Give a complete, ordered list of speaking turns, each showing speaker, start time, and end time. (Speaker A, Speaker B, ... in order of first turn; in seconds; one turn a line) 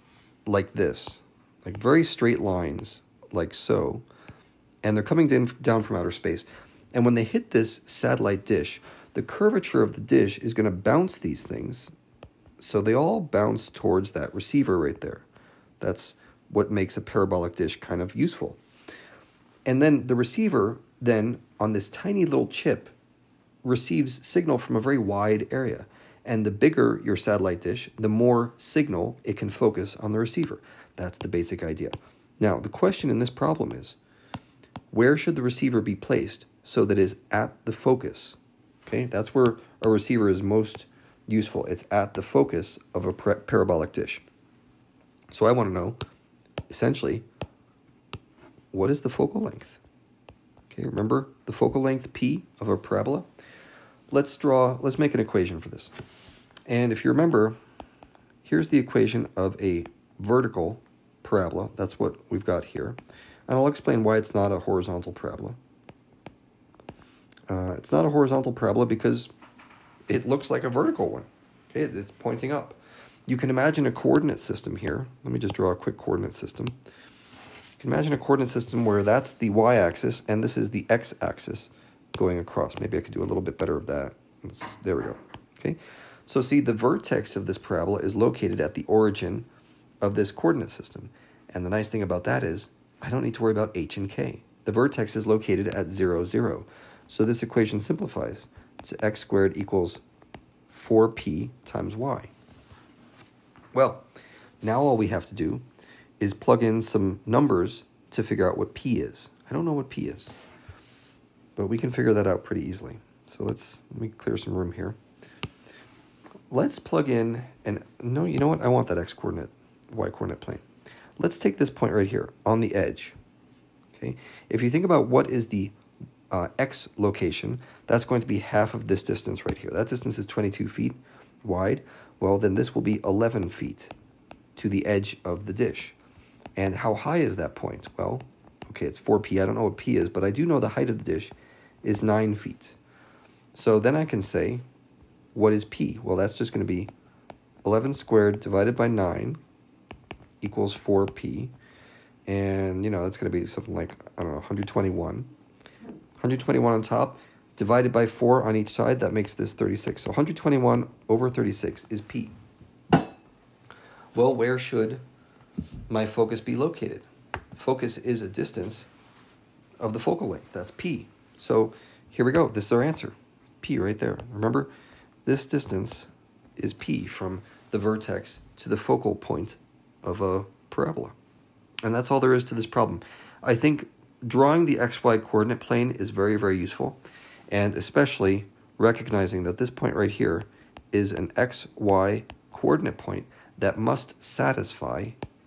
Speaker A: 0.5-4.0
Speaker A: 4.8-11.9
Speaker A: 12.6-15.2
Speaker A: 15.8-18.6
Speaker A: 19.6-22.9
Speaker A: 23.6-34.0
Speaker A: 34.9-44.2
Speaker A: 45.3-46.0
Speaker A: 46.7-47.2
Speaker A: 48.7-49.8
Speaker A: 50.7-53.3
Speaker A: 54.1-55.9
Speaker A: 56.7-57.5
Speaker A: 58.4-65.6
Speaker A: 67.5-69.3
Speaker A: 70.1-76.7
Speaker A: 77.8-89.5
Speaker A: 90.0-100.0
Speaker A: 100.7-102.3
Speaker A: 103.7-104.0
Speaker A: 104.6-105.6
Speaker A: 106.2-110.3
Speaker A: 111.5-115.0
Speaker A: 116.5-120.6
Speaker A: 121.2-123.2
Speaker A: 123.9-125.7
Speaker A: 126.3-133.9
Speaker A: 134.6-135.9
Speaker A: 136.6-142.8
Speaker A: 143.5-144.6
Speaker A: 145.3-146.9
Speaker A: 147.6-149.4
Speaker A: 150.4-151.5
Speaker A: 152.3-155.3
Speaker A: 156.2-162.3
Speaker A: 164.1-165.0
Speaker A: 165.9-168.9
Speaker A: 169.8-174.7
Speaker A: 175.2-181.1
Speaker A: 181.8-187.0
Speaker A: 187.5-195.2